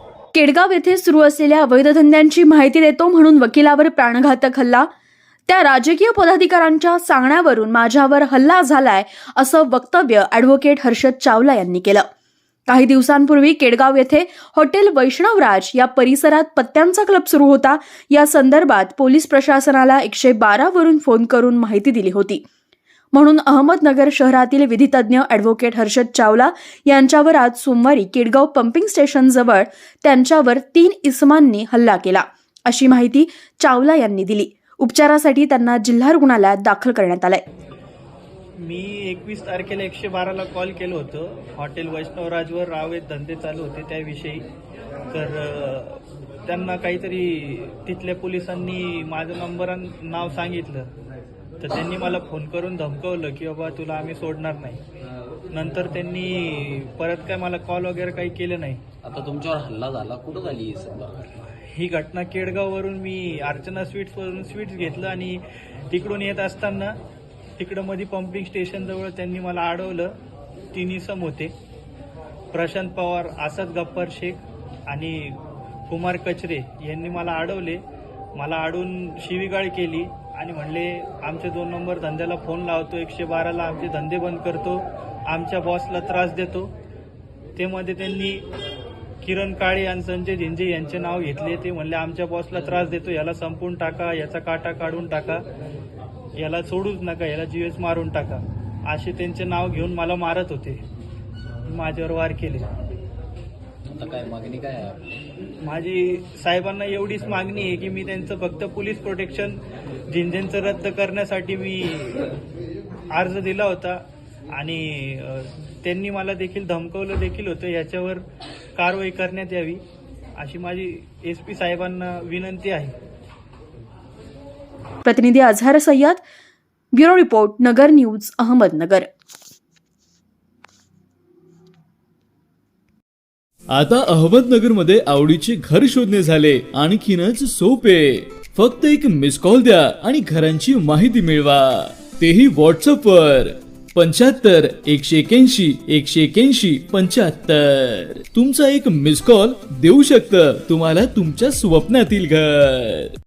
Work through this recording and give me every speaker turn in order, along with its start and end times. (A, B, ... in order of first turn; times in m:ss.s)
0:00.3-0:04.9 A
0:05.5-0:12.0 A
0:12.7-0:22.4 A
0:23.1-0:37.4 A
0:38.6-0:44.5 B
0:45.1-0:50.9 B
0:51.6-0:54.8 B
0:55.5-0:58.8 B
0:59.0-1:01.3 C
1:01.7-1:06.9 B
1:07.6-1:10.1 B
1:10.7-1:11.5 B
1:12.5-1:17.8 B
1:18.4-1:26.7 B
1:27.6-1:28.5 B
1:29.2-1:35.4 B
1:36.4-1:40.8 B
1:41.7-1:42.7 B
1:43.9-1:45.0 C
1:45.6-1:52.3 B
1:53.1-1:54.0 B
1:54.5-1:58.2 B
1:58.8-1:59.8 B
2:00.4-2:02.9 B
2:05.0-2:06.2 A
2:06.9-2:09.1 A
2:13.7-2:33.2 D